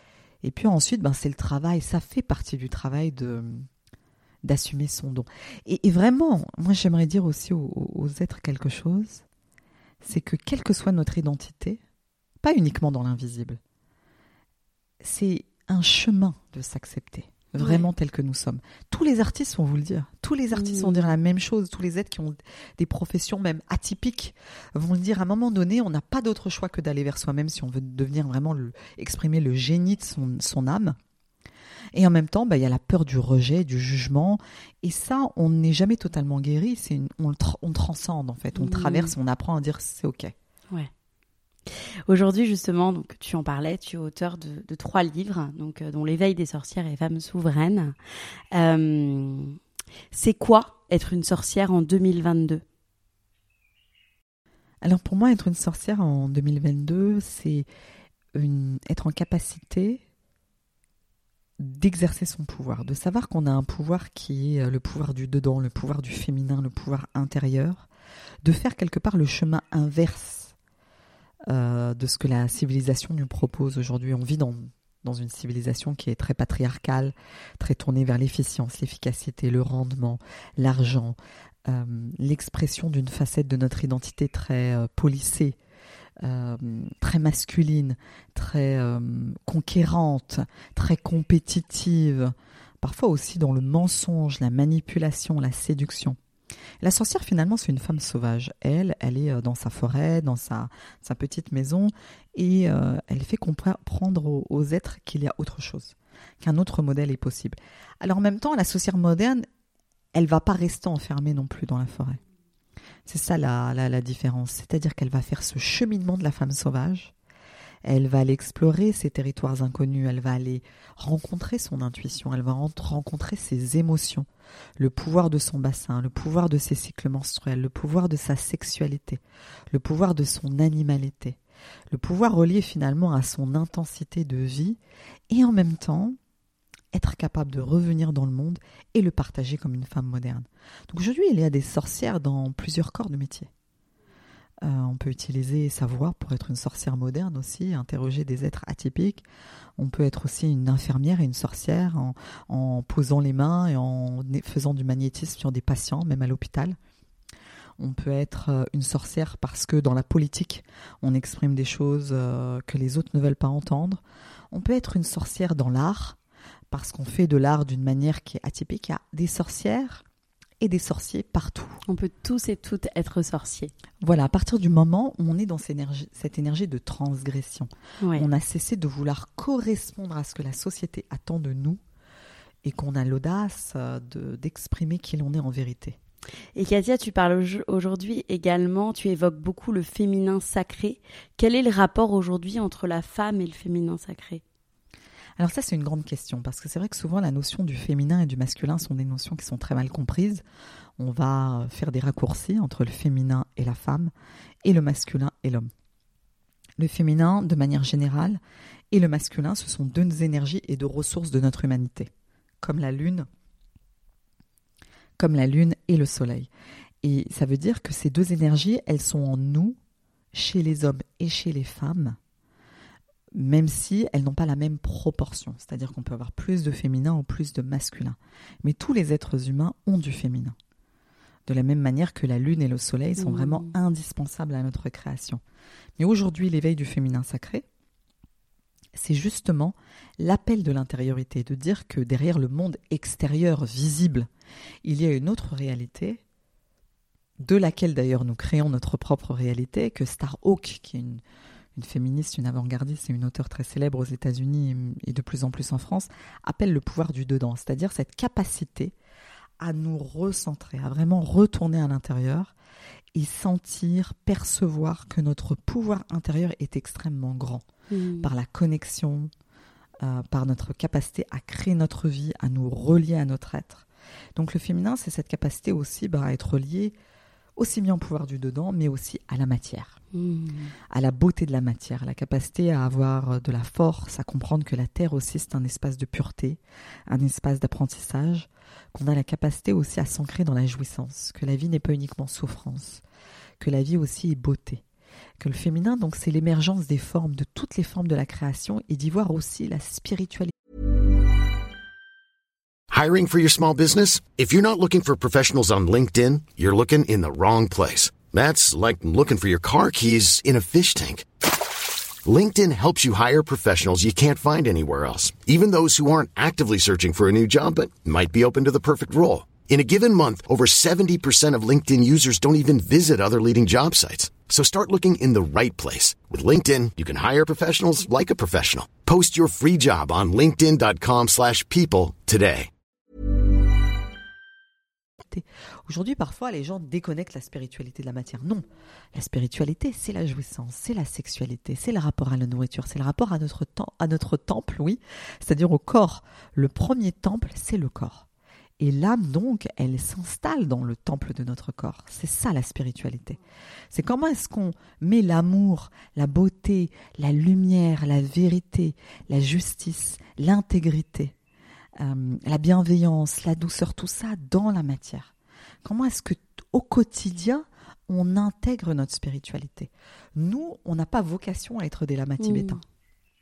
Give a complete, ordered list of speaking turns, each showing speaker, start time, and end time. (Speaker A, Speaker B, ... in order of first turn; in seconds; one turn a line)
Speaker A: 0.4-3.7
Speaker A: 4.4-9.2
Speaker A: 10.0-11.8
Speaker A: 12.4-13.6
Speaker A: 15.0-31.0
Speaker B: 17.6-17.9
Speaker B: 20.5-21.1
Speaker A: 31.9-40.3
Speaker B: 38.6-39.1
Speaker B: 41.7-48.0
Speaker B: 48.5-49.6
Speaker B: 50.1-52.6
Speaker A: 54.8-57.7
Speaker A: 58.3-60.0
Speaker A: 61.6-67.9
Speaker A: 68.4-70.5
Speaker A: 71.5-85.6
Speaker A: 86.2-96.2
Speaker A: 96.8-109.4
Speaker A: 110.1-112.2
Speaker A: 113.0-117.1
Speaker A: 117.8-131.4
Speaker A: 131.9-136.2
Speaker A: 136.9-143.5
Speaker A: 144.6-149.2
Speaker A: 149.8-156.8
Speaker A: 157.8-164.0
Speaker A: 164.5-166.2
Speaker A: 166.7-170.0
Speaker A: 170.6-171.8
Speaker B: 171.9-173.7
Speaker A: 174.0-181.8
Speaker B: 178.0-178.3
Speaker A: 182.6-186.0
Speaker B: 186.5-194.4
Speaker A: 195.4-200.4
Speaker A: 201.0-204.1
Speaker A: 204.6-205.7
Speaker A: 206.8-208.4
Speaker A: 208.9-212.1
Speaker A: 212.6-213.3
Speaker A: 215.2-216.5
Speaker A: 217.0-219.8
Speaker A: 220.3-222.2
Speaker A: 223.3-230.6
Speaker A: 231.5-235.4
Speaker B: 233.2-233.7
Speaker A: 236.0-237.6
Speaker A: 238.9-244.3
Speaker A: 244.8-246.2
Speaker A: 247.4-251.2
Speaker A: 251.8-258.9
Speaker A: 259.6-262.5
Speaker A: 263.1-267.6
Speaker B: 267.9-268.3
Speaker A: 268.2-269.3
Speaker A: 270.0-276.9
Speaker A: 277.6-280.0
Speaker B: 280.1-280.7
Speaker A: 280.9-293.0
Speaker A: 293.6-294.8
Speaker A: 295.4-300.5
Speaker C: 302.9-311.2
Speaker C: 312.2-332.7
Speaker A: 335.2-348.2
Speaker A: 348.8-353.4
Speaker A: 353.9-361.3
Speaker A: 362.0-365.3
Speaker A: 365.8-372.8
Speaker B: 372.4-372.8